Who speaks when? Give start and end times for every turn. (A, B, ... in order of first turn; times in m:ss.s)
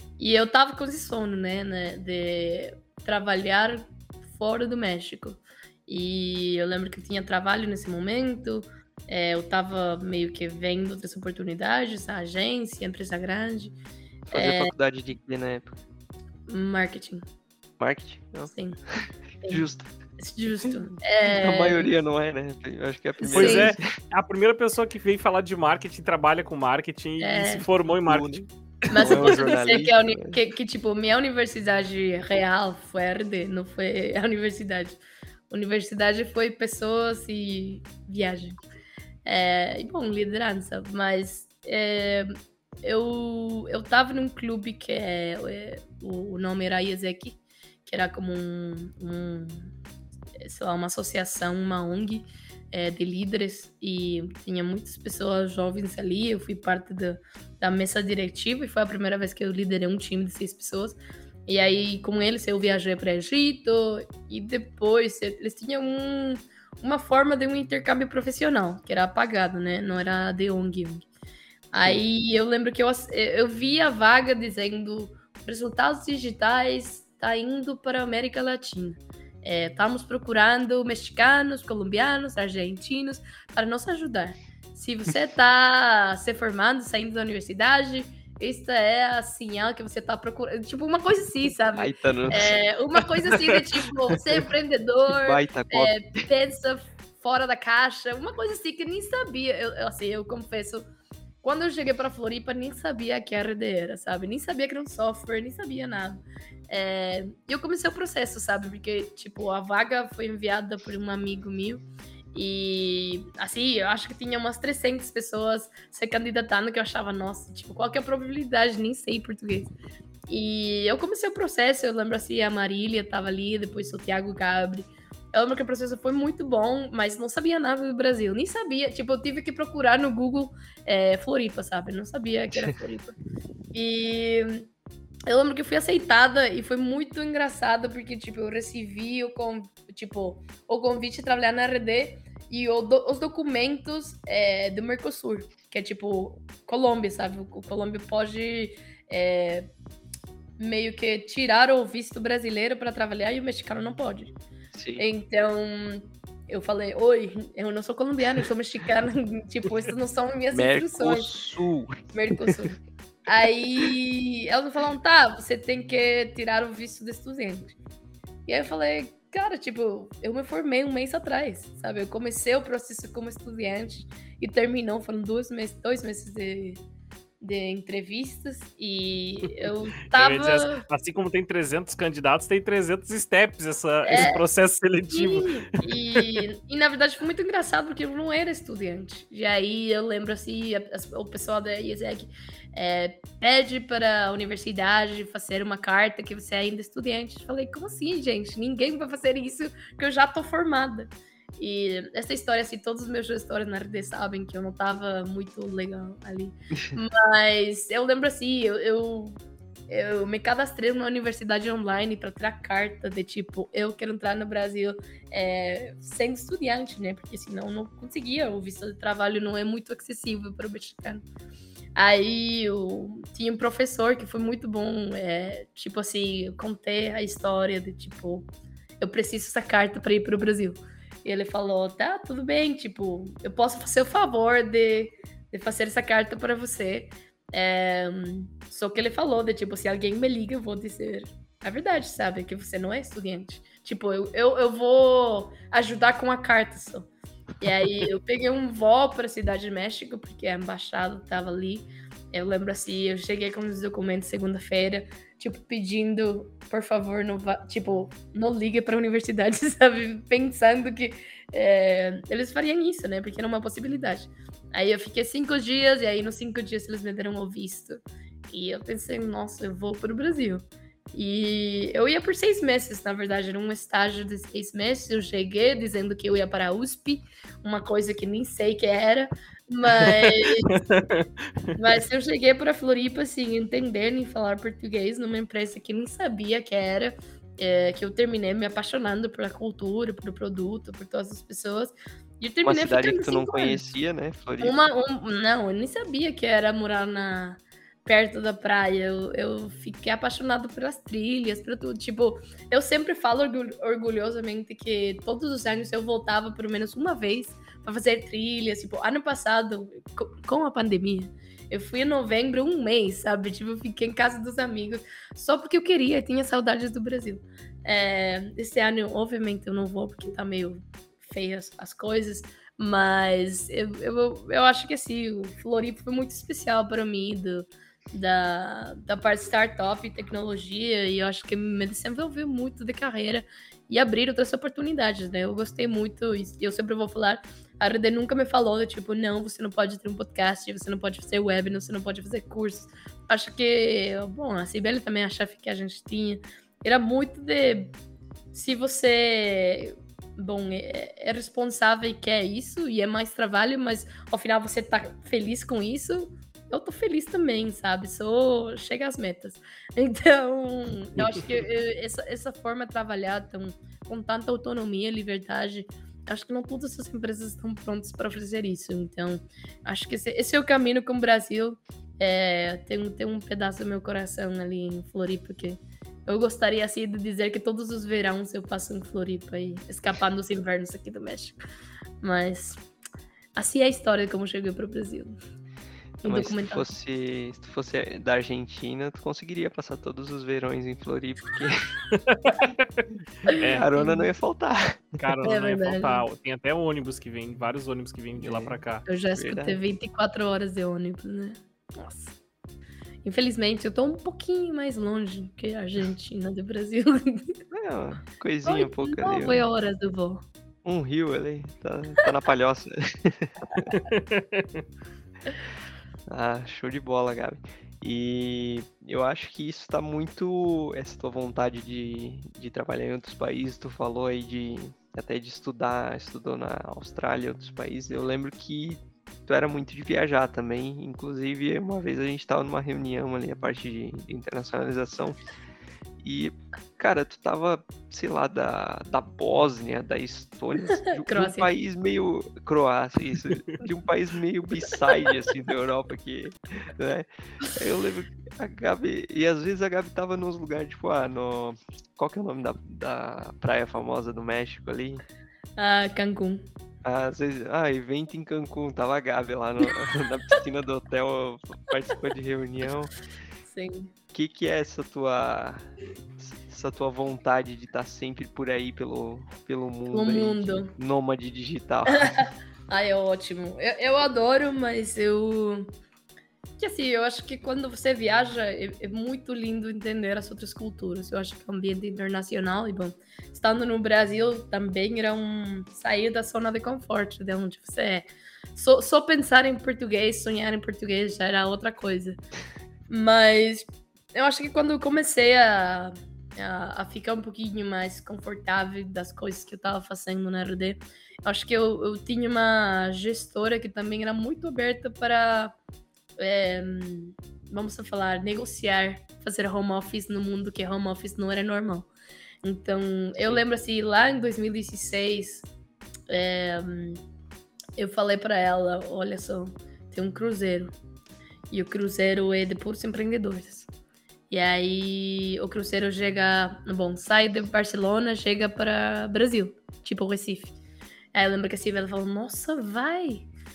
0:00.2-0:13.8 A
0:14.3-0:14.7 A
0:14.3-0:15.8 B
0:16.5-0:17.2 A
0:17.8-0:20.0 B
0:18.5-0:18.8 A
0:20.2-0:21.9 A
0:21.2-0:23.8 B
0:23.2-0:23.8 A
0:23.3-0:29.5 C
0:27.2-0:27.6 A
0:28.1-0:30.4 B
0:28.9-0:38.6 A
0:39.3-0:42.3 A
0:42.8-0:49.7 A
0:50.4-1:11.0 A
1:11.7-1:40.8 A
1:11.8-1:12.1 B
1:31.8-1:32.6 B
1:35.1-1:36.3 B
1:41.4-1:51.8 A
1:52.3-1:59.7 A
2:00.3-2:13.1 A
2:13.7-2:14.7 A
2:15.3-2:29.7 A
2:30.6-2:34.3 A
2:34.7-2:35.0 B
2:35.0-2:41.3 A
2:40.5-2:42.5 B
2:42.1-2:47.8 A
2:48.5-2:56.8 A
2:57.4-3:00.8 A
2:59.6-3:06.4 C
3:04.0-3:04.4 A
3:05.1-3:29.4 A
3:29.9-3:41.2 A
3:42.0-3:48.5 A
3:49.0-4:07.1 A
4:07.6-4:40.8 A
4:40.4-4:41.3 C
4:41.8-4:53.9 A
4:52.6-4:54.8 B
4:54.6-5:47.9 A
5:48.5-6:21.6 A
6:22.2-6:22.8 A
6:23.6-6:25.4 A
6:26.2-6:26.9 A
6:26.2-6:31.9 B
6:32.1-6:33.9 C
6:33.5-6:34.3 A
6:33.6-6:35.2 B
6:35.2-6:39.1 C
6:35.4-6:36.2 A
6:38.4-6:38.8 B
6:39.1-6:42.4 A
6:39.4-6:39.8 B
6:43.2-6:47.6 A
6:47.7-6:49.6 B
6:48.6-6:50.5 A
6:50.8-6:53.6 B
6:53.8-6:54.8 C
6:56.3-7:15.4 B
7:16.2-7:35.2 B
7:21.1-7:21.7 A
7:35.8-7:36.7 A
7:37.0-7:43.1 B
7:43.6-7:44.1 A
7:44.3-7:45.8 B
7:46.4-7:52.3 B
7:50.1-7:50.9 A
7:52.2-7:55.9 A
7:56.8-8:12.4 A
8:13.1-8:25.8 A
8:26.4-8:32.1 A
8:32.6-8:35.7 A
8:36.3-8:37.2 A
8:38.0-8:41.0 A
8:41.7-8:43.9 A
8:44.5-8:50.8 A
8:51.3-8:53.5 A